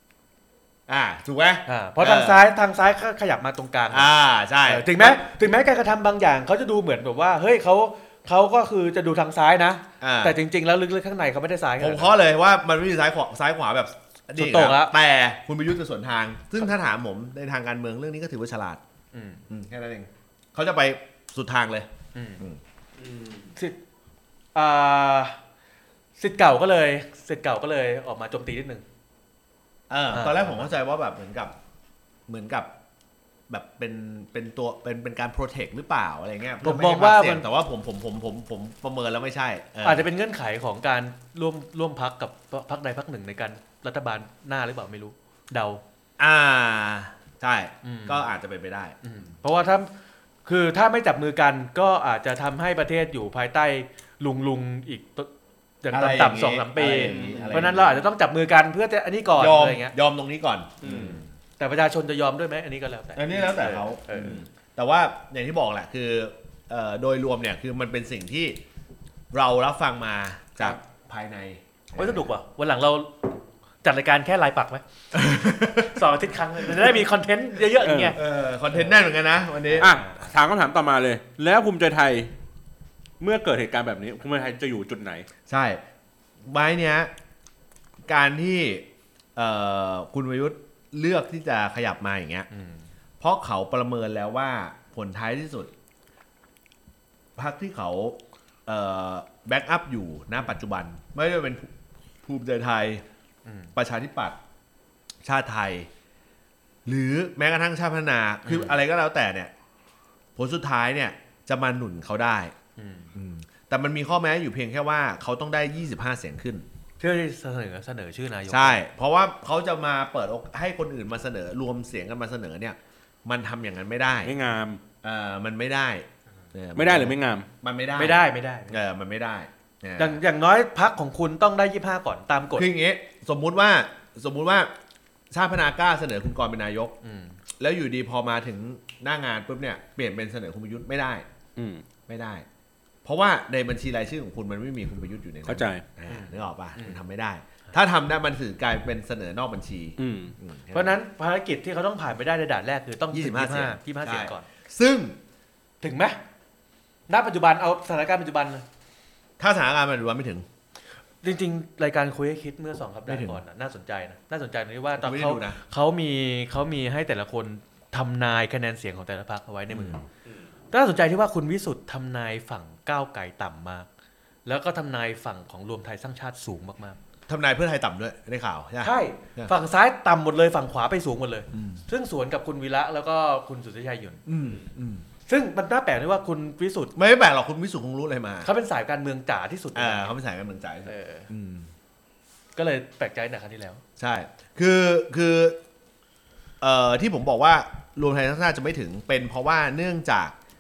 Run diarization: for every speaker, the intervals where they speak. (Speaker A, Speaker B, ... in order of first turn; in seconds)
Speaker A: 0.9-2.5, 3.9-5.2, 10.0-10.4, 11.8-18.8, 19.5-21.9, 29.9-31.5, 32.3-32.7, 33.5-40.1, 46.2-49.0, 55.9-57.9, 59.4-61.3, 63.2-68.6, 69.3-72.2, 75.1-76.0, 76.6-77.0, 78.2-79.9, 85.5-85.8, 86.5-87.1, 88.1-92.5, 93.2-95.7, 97.4-103.0, 103.8-104.4, 105.2-105.9, 106.9-109.5, 110.4-112.5, 113.2-116.7, 118.5-124.3, 125.0-130.2, 132.6-134.7, 135.3-136.9, 137.6-141.3, 142.1-142.5, 143.1-151.0, 153.1-155.2, 159.4-160.5, 163.1-163.4, 165.0-165.6, 169.7-170.0, 177.3-179.5, 181.5-181.8, 184.3-185.1, 187.0-188.5, 189.8-191.7, 194.0-195.6, 196.6-200.3
Speaker B: 1.7-4.1, 4.6-12.1, 14.3-14.9, 19.1-19.4, 22.1-22.4, 24.6-25.4, 26.2-28.8, 30.1-30.7, 36.6-37.5, 39.8-45.8, 47.8-48.3, 49.0-49.9, 50.5-55.3, 55.8-60.0, 61.6-64.4, 72.0-74.8, 75.8-78.2, 79.7-80.3, 92.5-92.9, 103.5-103.7, 108.5-108.8, 112.8-113.1, 117.0-118.8, 128.0-128.8, 130.0-132.7, 137.0-137.4, 146.1-147.0, 150.7-154.5, 155.8-156.2, 157.1-158.7, 161.2-170.0, 170.7-173.9, 174.5-177.0, 178.8-184.2, 185.3-186.9, 188.4-190.1, 190.9-191.3, 192.6-193.8
Speaker C: 23.0-23.5, 56.9-58.0, 60.8-61.2, 64.2-64.4, 77.8-78.2, 79.8-82.3, 83.2-85.2, 124.2-124.8, 126.8-127.5, 141.6-141.8, 145.5-145.8, 150.0-150.3